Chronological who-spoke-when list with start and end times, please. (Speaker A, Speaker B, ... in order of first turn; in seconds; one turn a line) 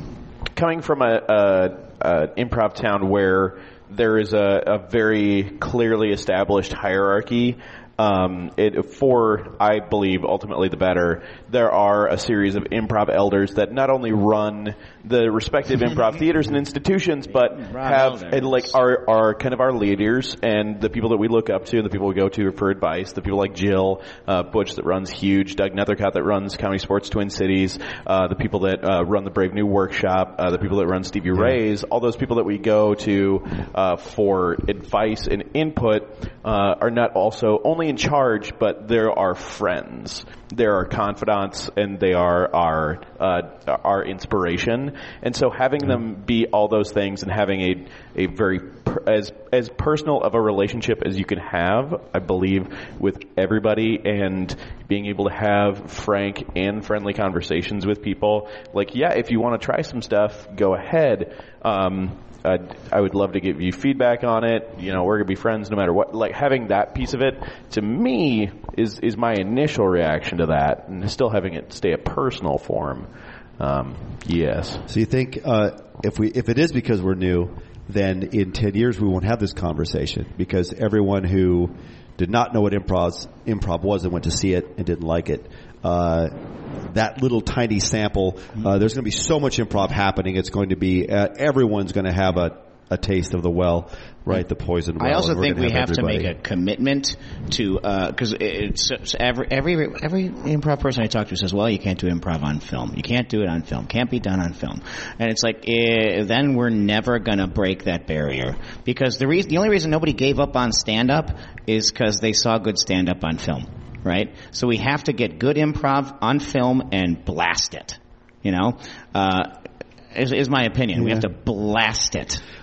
Speaker A: 0.6-73.1
Speaker B: 17.3-18.8
Speaker A: 73.6-74.8
Speaker C: 74.9-86.3
Speaker C: 86.9-96.3
Speaker B: 95.0-119.5
Speaker B: 120.1-122.4
Speaker C: 120.9-121.3